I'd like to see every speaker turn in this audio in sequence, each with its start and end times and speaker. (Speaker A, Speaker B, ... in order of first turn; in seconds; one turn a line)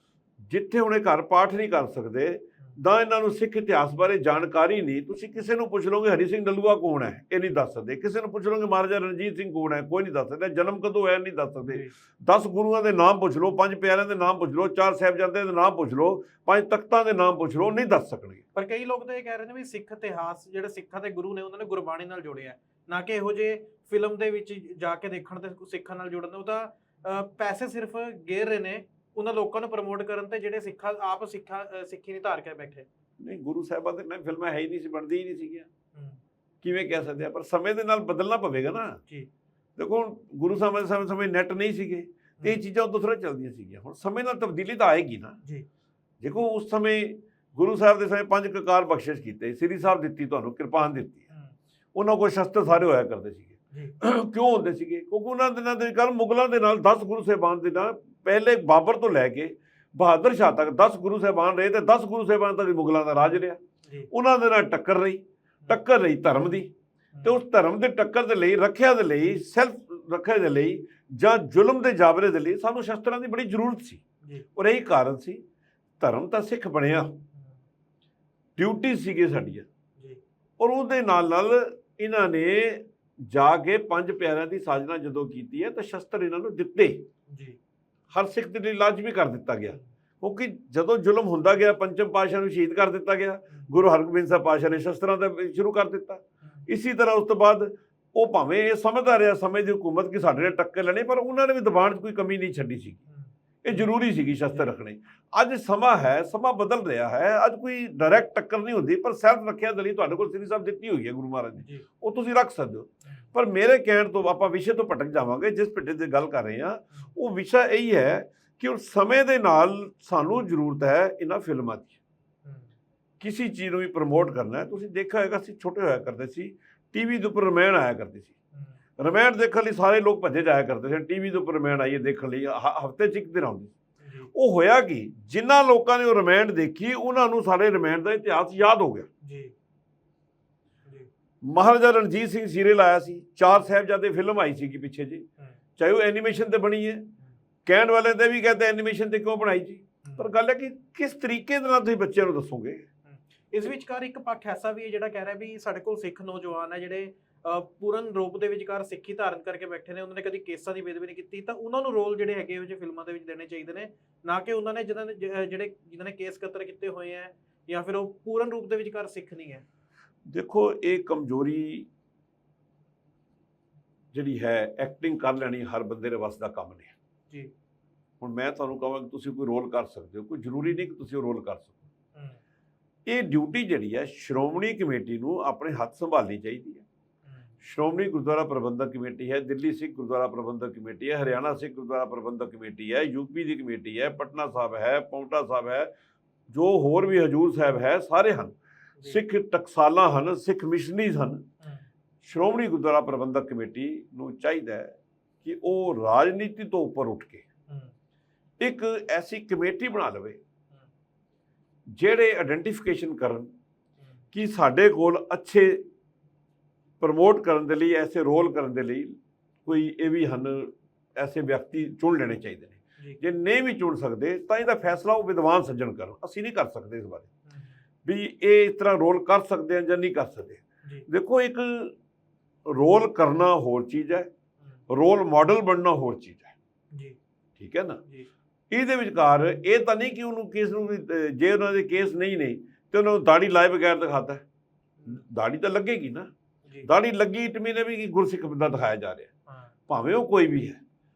Speaker A: 0.5-18.4
Speaker B: 18.5-32.9
Speaker A: 33.2-35.7
Speaker A: 36.6-39.0
Speaker A: 39.8-45.4
Speaker A: 46.2-51.2
Speaker A: 51.9-63.6
Speaker A: 64.1-66.7
Speaker B: 67.1-67.4
Speaker A: 67.2-74.0
Speaker A: 74.5-75.4
Speaker A: 76.0-77.2
Speaker A: 78.6-79.7
Speaker A: 80.6-87.1
Speaker B: 87.3-87.6
Speaker A: 88.1-103.0
Speaker B: 103.1-103.9
Speaker A: 103.6-121.9
Speaker B: 111.6-111.8
Speaker A: 123.2-128.3
Speaker A: 129.0-133.7
Speaker B: 134.0-134.3
Speaker A: 134.3-139.1
Speaker B: 139.2-139.5
Speaker A: 141.4-145.3
Speaker A: 145.8-147.1
Speaker A: 147.7-152.8
Speaker B: 150.0-150.3
Speaker B: 153.1-169.6
Speaker A: 170.3-171.9
Speaker A: 174.1-176.9
Speaker A: 178.2-181.8
Speaker A: 183.1-186.8
Speaker B: 187.3-187.5
Speaker A: 187.6-195.9
Speaker A: 196.5-201.4
Speaker A: 202.2-207.4
Speaker A: 208.6-210.4
Speaker A: 211.9-213.5
Speaker A: 214.3-215.8
Speaker A: 217.0-227.3
Speaker B: 227.5-227.8
Speaker A: 228.0-231.9
Speaker A: 232.7-234.3
Speaker A: 234.9-236.5
Speaker A: 237.6-238.0
Speaker A: 238.7-244.4
Speaker A: 245.1-246.3
Speaker A: 246.8-249.3
Speaker B: 249.5-249.7
Speaker A: 249.9-250.8